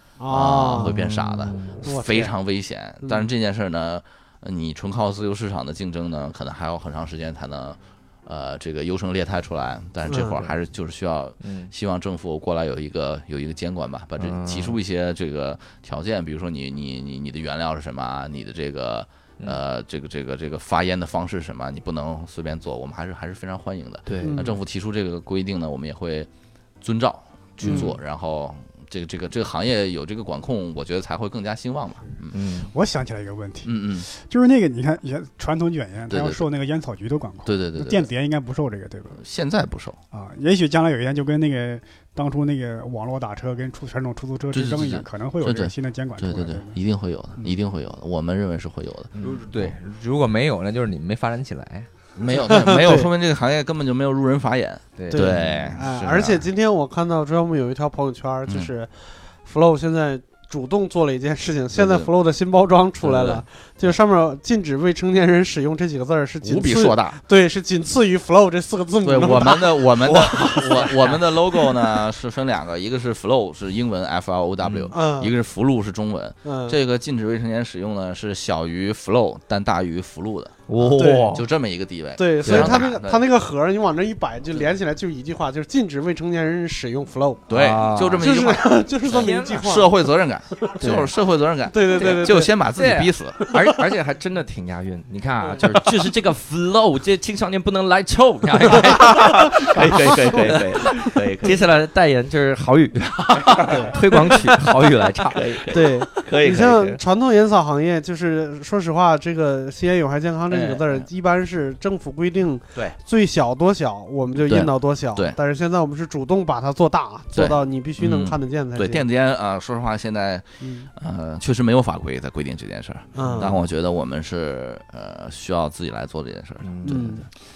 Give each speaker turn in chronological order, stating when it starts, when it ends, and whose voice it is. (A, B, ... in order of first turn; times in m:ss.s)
0:00.2-0:01.1 A
0:00.3-0:26.3 B
0:00.8-0:01.8 C
0:01.8-0:02.3 A
0:03.0-0:03.3 A
0:10.0-0:10.4 A
0:11.4-0:11.7 D
0:14.2-0:14.8 C
0:24.0-0:24.5 C
0:24.2-0:24.6 A
0:26.8-0:32.4 B
0:27.6-0:27.9 C
0:27.6-0:27.9 A
0:32.3-0:32.7 C
0:32.7-0:39.2 E
0:33.6-0:34.1 B
0:36.1-0:36.4 B
0:37.4-0:38.1 B
0:39.2-0:40.0 B
0:40.1-0:46.8 E
0:44.5-0:49.1 B
0:49.2-0:49.4 C
0:49.2-0:51.9 D
0:52.2-0:56.4 B
0:52.5-0:53.1 A
0:55.0-0:55.3 D
0:55.1-1:10.9 A
1:01.7-1:02.1 B
1:03.0-1:03.9 B
1:06.4-1:07.2 B
1:09.0-1:23.2 B
1:10.0-1:11.3 C
1:14.9-1:15.3 A
1:16.4-1:16.8 A
1:20.7-1:21.5 C
1:21.0-1:21.4 A
1:22.2-1:27.5 A
1:22.4-1:22.9 C
1:27.5-1:33.4 B
1:27.5-1:28.3 C
1:28.2-1:30.0 A
1:29.0-1:29.8 C
1:30.5-1:31.1 A
1:30.8-1:31.1 C
1:31.7-1:32.5 A
1:31.9-1:45.9 C
1:33.4-1:33.8 A
1:38.9-1:41.6 B
1:43.5-1:44.4 B
1:43.6-1:44.0 A
1:45.3-1:47.0 B
1:45.7-1:59.0 A
1:50.5-1:51.0 B
1:54.4-1:55.4 B
1:57.3-2:07.0 B
2:00.6-2:00.9 A
2:03.1-2:03.6 A
2:03.2-2:03.6 C
2:06.6-2:07.2 C
2:06.8-2:07.3 A